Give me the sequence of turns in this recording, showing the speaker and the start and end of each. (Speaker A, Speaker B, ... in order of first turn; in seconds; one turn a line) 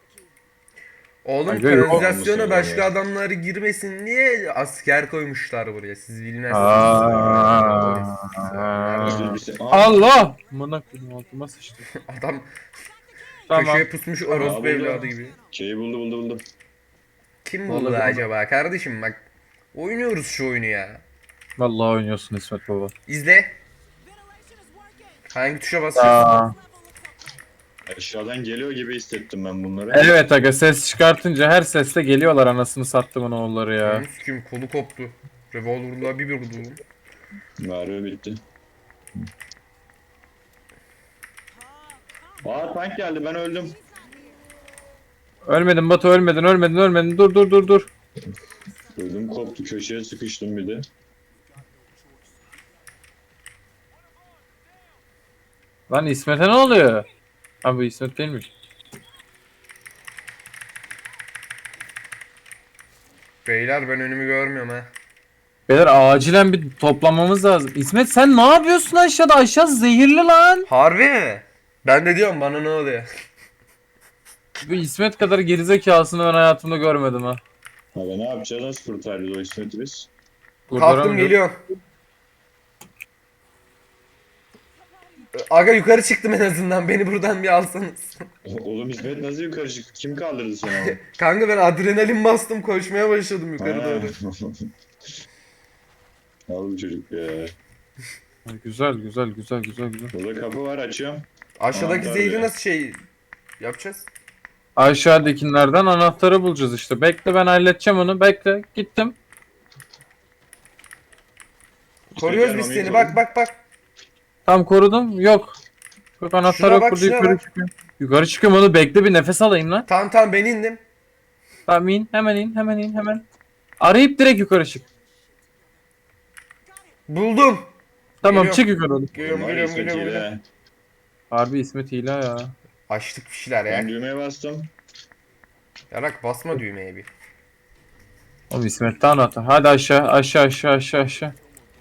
Speaker A: 1.2-9.3
Speaker B: 1.5-2.0
Speaker C: 1.8-2.9
Speaker B: 6.5-11.9
Speaker C: 6.6-8.0
Speaker C: 9.0-10.0
Speaker A: 11.9-12.5
Speaker A: 13.5-15.4
Speaker B: 13.5-13.8
Speaker C: 14.3-16.4
Speaker A: 17.4-19.2
Speaker B: 17.7-18.2
Speaker A: 19.7-21.0
Speaker B: 21.6-22.9
Speaker A: 23.1-23.6
Speaker A: 25.3-26.3
Speaker B: 25.9-26.6
Speaker C: 27.9-30.1
Speaker B: 29.9-34.0
Speaker A: 33.8-36.8
Speaker C: 37.6-38.4
Speaker C: 42.4-43.7
Speaker B: 45.5-47.9
Speaker C: 48.9-50.9
Speaker B: 55.9-57.1
Speaker B: 57.6-58.5
Speaker A: 63.5-64.9
Speaker B: 65.7-70.7
Speaker A: 70.7-73.1
Speaker B: 74.6-77.4
Speaker C: 77.9-80.1
Speaker B: 80.7-81.4
Speaker A: 80.7-81.5
Speaker A: 85.4-88.2
Speaker C: 88.5-91.0
Speaker A: 90.7-94.1
Speaker C: 93.6-94.7
Speaker C: 96.5-97.5
Speaker B: 98.5-100.1
Speaker C: 100.1-102.5
Speaker A: 101.6-103.0
Speaker A: 103.6-104.1
Speaker B: 104.8-109.1
Speaker C: 112.2-113.2
Speaker A: 112.2-113.6
Speaker B: 114.5-115.6
Speaker B: 116.2-119.8
Speaker A: 116.4-117.4
Speaker A: 119.8-120.8
Speaker B: 121.7-123.2
Speaker B: 123.8-124.8
Speaker A: 127.1-127.7
Speaker B: 128.2-129.1
Speaker A: 128.2-130.3
Speaker C: 129.1-130.4
Speaker B: 131.3-132.5
Speaker A: 132.9-133.9
Speaker C: 133.7-134.7
Speaker A: 135.9-137.1
Speaker B: 138.5-141.3